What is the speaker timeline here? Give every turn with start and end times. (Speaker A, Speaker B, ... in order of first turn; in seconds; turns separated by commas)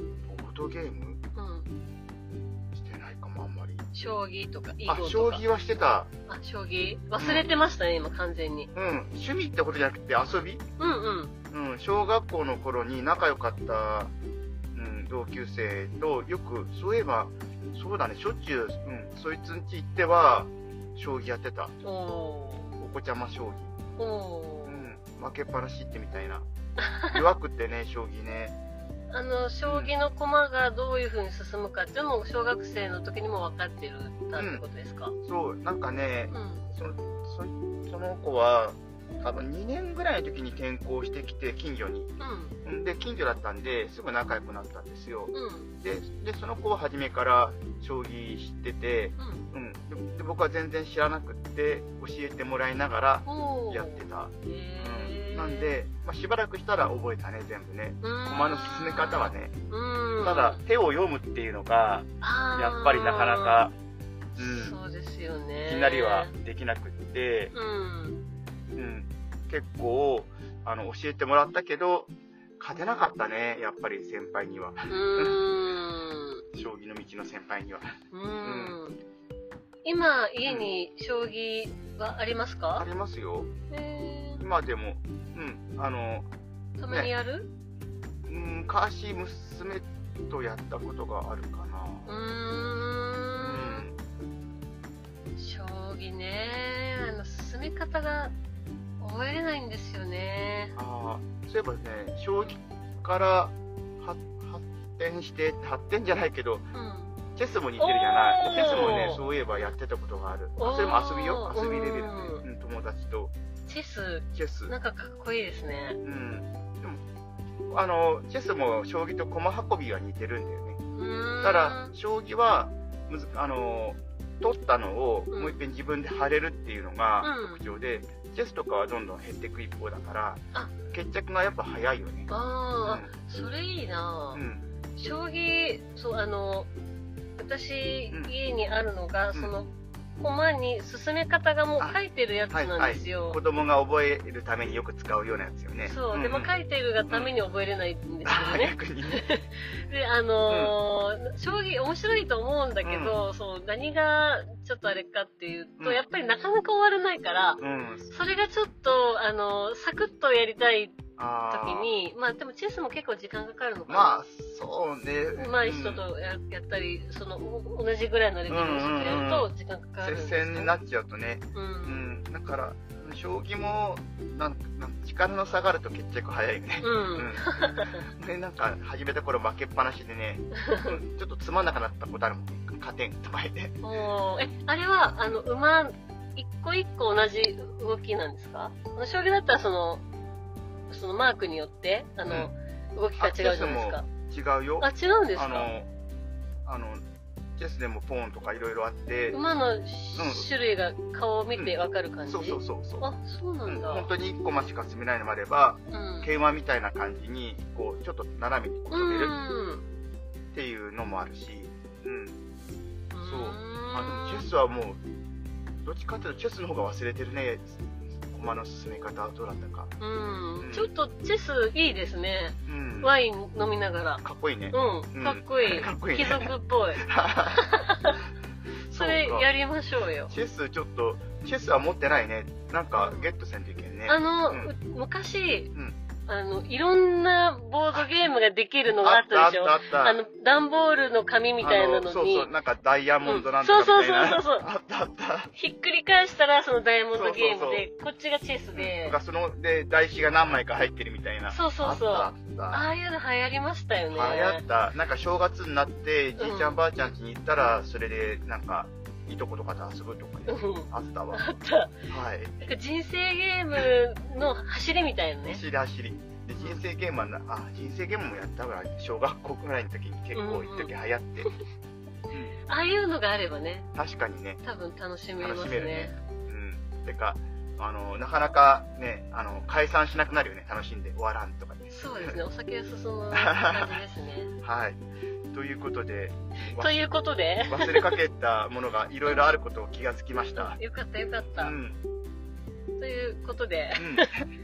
Speaker A: 0.3-1.2, Speaker B: 1.4-1.7, Speaker A: 2.7-3.9, Speaker B: 3.9-5.4, Speaker A: 4.9-6.1, Speaker B: 6.3-8.7, Speaker A: 7.2-7.5, Speaker A: 8.8-10.6, Speaker B: 10.8-11.3, Speaker A: 11.5-14.1, Speaker A: 14.7-21.7, Speaker B: 21.8-22.7, Speaker A: 22.8-23.7, Speaker B: 24.0-24.9, Speaker A: 24.7-26.5, Speaker B: 26.9-27.2, Speaker A: 27.1-28.6, Speaker B: 29.1-35.1, Speaker A: 29.6-29.9, Speaker A: 34.4-34.6, Speaker A: 35.2-59.5, Speaker B: 36.3-36.7, Speaker B: 42.2-42.5, Speaker B: 45.3-45.7, Speaker B: 49.2-49.5, Speaker B: 53.3-55.8, Speaker B: 58.0-60.6, Speaker A: 60.2-63.7, Speaker B: 62.2-63.7, Speaker A: 64.4-64.8, Speaker B: 64.4-66.3, Speaker A: 65.6-67.5, Speaker B: 67.5-68.2, Speaker A: 68.8-75.5, Speaker B: 74.9-76.4, Speaker A: 76.5-78.8, Speaker B: 78.1-79.0, Speaker B: 79.8-82.9, Speaker A: 80.5-80.7, Speaker A: 82.8-83.5, Speaker B: 83.7-84.5, Speaker A: 84.4-86.3, Speaker B: 86.8-87.5, Speaker A: 88.3-92.1, Speaker B: 92.1-93.9, Speaker A: 93.4-94.0, Speaker B: 95.4-98.3, Speaker B: 99.0-100.8, Speaker A: 100.8-106.7, Speaker B: 106.7-107.2, Speaker A: 107.3-113.3, Speaker B: 107.8-109.2, Speaker B: 110.6-112.5, Speaker B: 113.7-116.0, Speaker A: 114.3-114.7, Speaker A: 116.0-117.0, Speaker A: 117.7-120.8, Speaker B: 121.0-121.9, Speaker A: 121.4-132.3, Speaker B: 125.3-125.6, Speaker B: 127.2-127.6, Speaker B: 132.3-134.4, Speaker A: 132.8-133.1, Speaker A: 134.3-134.7, Speaker B: 135.0-136.7, Speaker B: 137.4-143.4, Speaker A: 142.5-146.5, Speaker B: 145.8-161.0, Speaker A: 148.2-149.2, Speaker A: 150.5-150.8, Speaker A: 152.8-153.2, Speaker A: 157.6-158.1, Speaker A: 161.2-161.9, Speaker B: 161.5-164.2, Speaker A: 163.9-166.0, Speaker B: 165.4-170.8, Speaker A: 168.5-169.5, Speaker A: 170.0-183.8, Speaker B: 171.5-172.1, Speaker B: 176.8-178.1, Speaker B: 180.7-181.0, Speaker B: 183.8-190.0, Speaker B: 190.9-194.1, Speaker A: 192.3-192.5, Speaker A: 193.2-195.9, Speaker B: 194.8-195.7, Speaker A: 196.7-197.0, Speaker A: 197.6-199.4, Speaker B: 199.3-204.1, Speaker A: 200.2-200.5, Speaker A: 202.3-203.1, Speaker A: 203.7-209.3, Speaker B: 205.9-206.3, Speaker B: 208.9-209.8, Speaker A: 210.5-212.4, Speaker B: 213.1-214.5, Speaker A: 213.2-215.0, Speaker A: 215.8-219.9, Speaker B: 220.0-228.2, Speaker A: 220.6-220.9, Speaker A: 222.7-223.1, Speaker A: 224.2-227.7, Speaker A: 228.9-229.5, Speaker B: 228.9-230.3, Speaker A: 230.3-234.7, Speaker B: 232.9-233.3, Speaker B: 234.1-235.7, Speaker B: 236.3-242.5, Speaker A: 239.0-240.2, Speaker A: 241.6-245.5, Speaker B: 243.2-244.7, Speaker B: 245.5-249.2, Speaker A: 247.1-247.9, Speaker A: 248.7-252.9, Speaker B: 251.5-254.6, Speaker A: 254.1-261.5, Speaker B: 256.4-256.8, Speaker B: 260.5-261.9, Speaker A: 262.1-262.6, Speaker B: 262.6-265.6, Speaker A: 265.5-271.5, Speaker B: 266.5-266.8, Speaker B: 270.3-270.9, Speaker B: 272.7-273.9, Speaker A: 273.9-274.6, Speaker B: 274.6-276.1, Speaker A: 275.4-282.4, Speaker B: 281.9-284.5, Speaker A: 283.3-284.0, Speaker A: 284.6-285.0, Speaker A: 285.5-287.1, Speaker B: 286.7-288.2, Speaker A: 287.7-290.8, Speaker B: 290.6-291.8, Speaker A: 291.6-292.0, Speaker B: 293.0-294.3, Speaker A: 294.0-294.4